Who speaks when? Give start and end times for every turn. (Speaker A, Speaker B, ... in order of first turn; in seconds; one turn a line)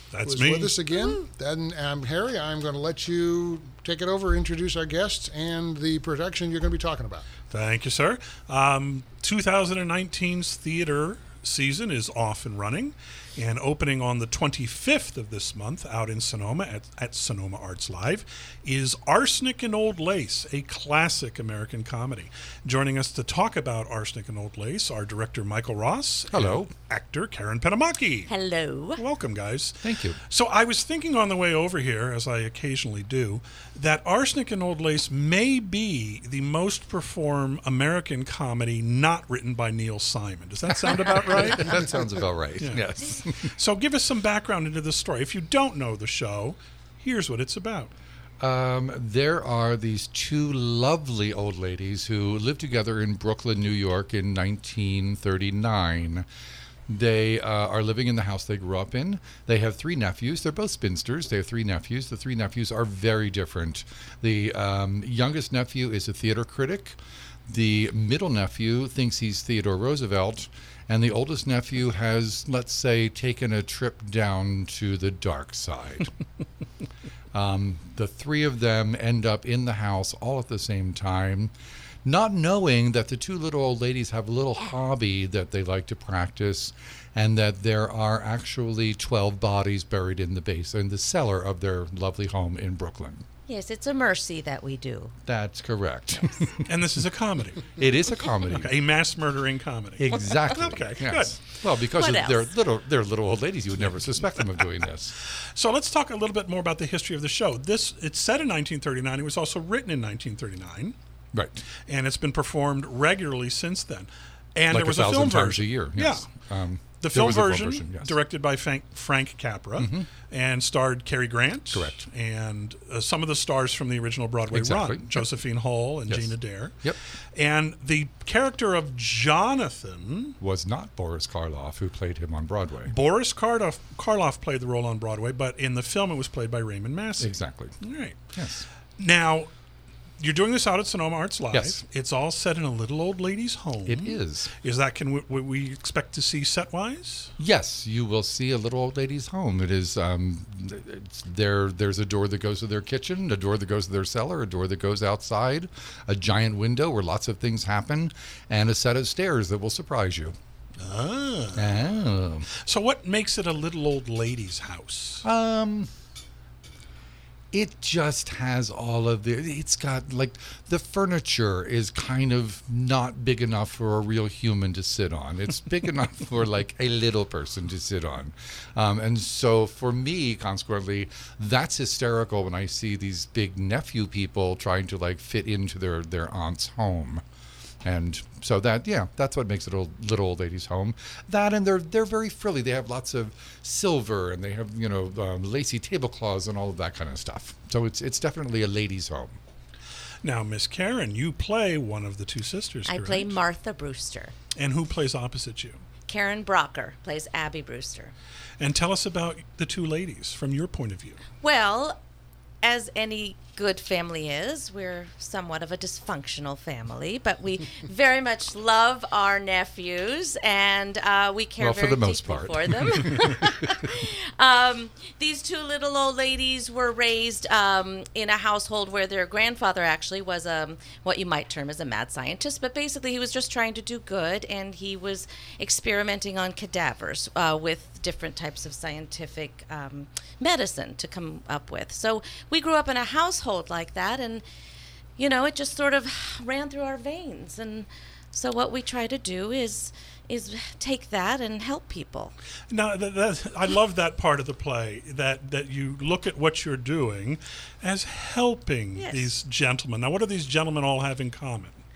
Speaker A: 0.1-0.8
Speaker B: 0.2-7.3
Speaker C: 0.9-1.2
Speaker A: 7.5-28.3
Speaker D: 26.3-26.7
Speaker C: 28.3-29.0
Speaker A: 29.0-41.9
Speaker D: 29.8-30.2
Speaker D: 40.7-43.5
Speaker A: 42.6-42.9
Speaker A: 43.4-47.9
Speaker D: 48.4-56.3
Speaker D: 56.9-76.1
Speaker D: 77.3-81.5
Speaker D: 82.0-93.2
Speaker C: 93.5-95.2
Speaker D: 95.3-96.7
Speaker A: 96.7-97.7
Speaker D: 97.7-98.7
Speaker A: 98.5-101.4
Speaker D: 100.0-105.1
Speaker C: 102.0-102.5
Speaker A: 105.3-111.0
Speaker D: 111.3-111.6
Speaker A: 111.9-116.3
Speaker D: 114.7-118.2
Speaker A: 117.0-130.4
Speaker D: 119.8-120.1
Speaker D: 121.7-122.1
Speaker D: 124.5-125.2
Speaker D: 126.1-127.0
Speaker D: 130.4-132.9
Speaker A: 132.9-138.2
Speaker D: 137.2-137.8
Speaker D: 138.3-138.7
Speaker A: 139.0-139.5
Speaker A: 140.2-147.3
Speaker D: 141.5-141.8
Speaker D: 143.9-144.5
Speaker D: 147.4-160.3
Speaker A: 160.8-162.0
Speaker D: 161.6-162.5
Speaker A: 162.6-165.2
Speaker D: 165.2-165.9
Speaker D: 167.5-187.2
Speaker D: 187.8-199.4
Speaker A: 200.2-203.4
Speaker C: 202.9-204.3
Speaker A: 204.6-205.8
Speaker C: 206.1-208.1
Speaker A: 208.6-211.2
Speaker C: 211.4-212.0
Speaker C: 212.6-244.4
Speaker D: 221.6-223.1
Speaker C: 245.2-252.3
Speaker A: 252.7-261.8
Speaker C: 259.0-259.3